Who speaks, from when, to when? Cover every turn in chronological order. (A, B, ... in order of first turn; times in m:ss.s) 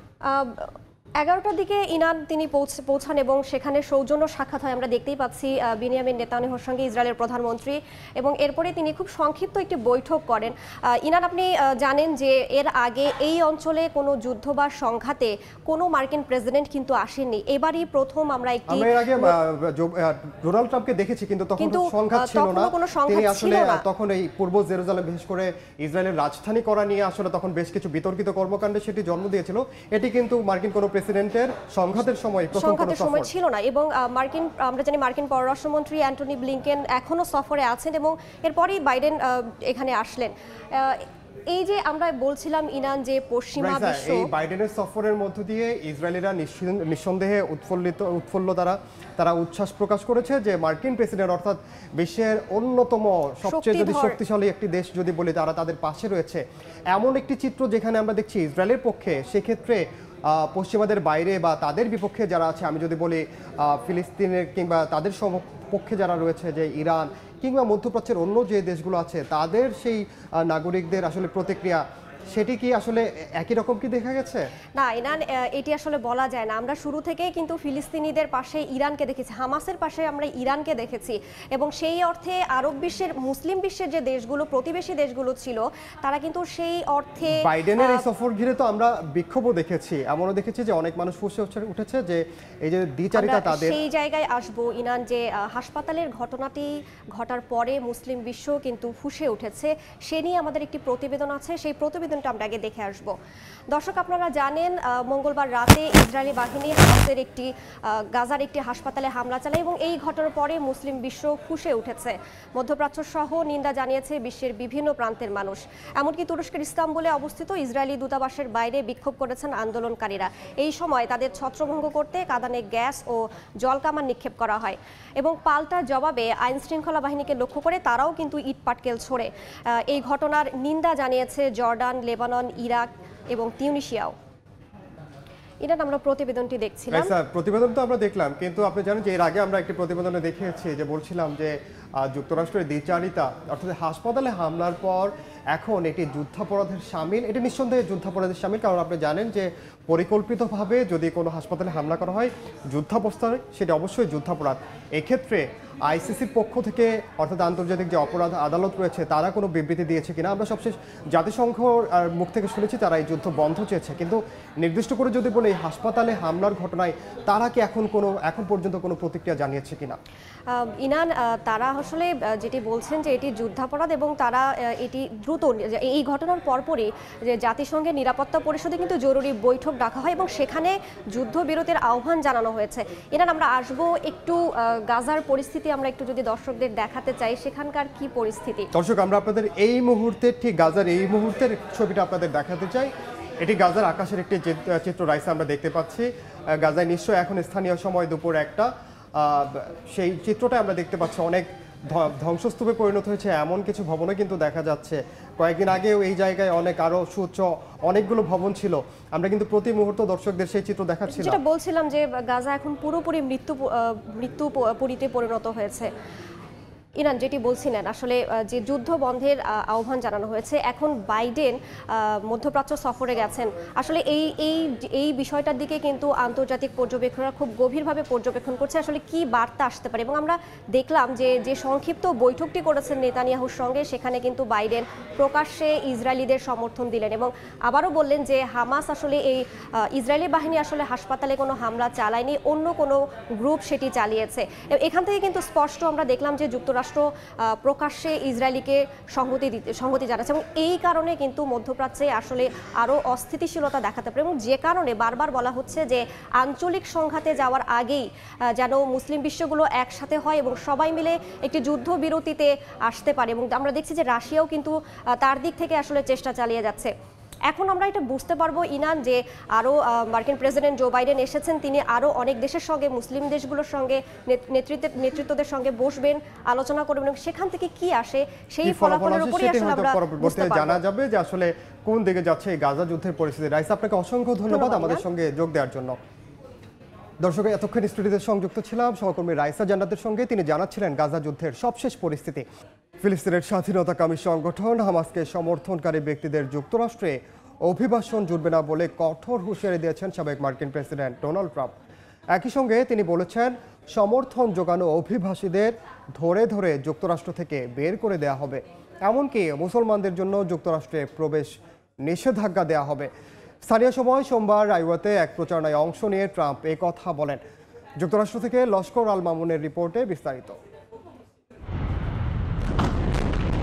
0:00.2-0:19.3 A
0:18.7-0:33.3 B
0:21.6-0:23.8 A
0:32.6-0:44.2 A
0:43.6-1:14.4 B
0:53.5-0:54.2 A
1:14.8-1:28.0 A
1:27.3-1:33.8 B
1:33.2-1:43.1 A
1:43.7-2:14.1 A
2:15.6-2:17.1 A
2:16.9-2:50.0 B
2:50.5-3:08.7 A
3:08.7-3:31.4 B
3:31.1-3:35.9 A
3:37.0-4:26.9 A
4:27.5-4:40.8 A
4:38.6-4:46.0 B
4:44.5-4:45.0 A
4:47.2-4:52.4 B
4:53.0-5:01.7 B
5:02.3-5:11.5 B
5:12.0-5:13.1 B
5:13.6-5:17.4 B
5:18.0-5:20.6 B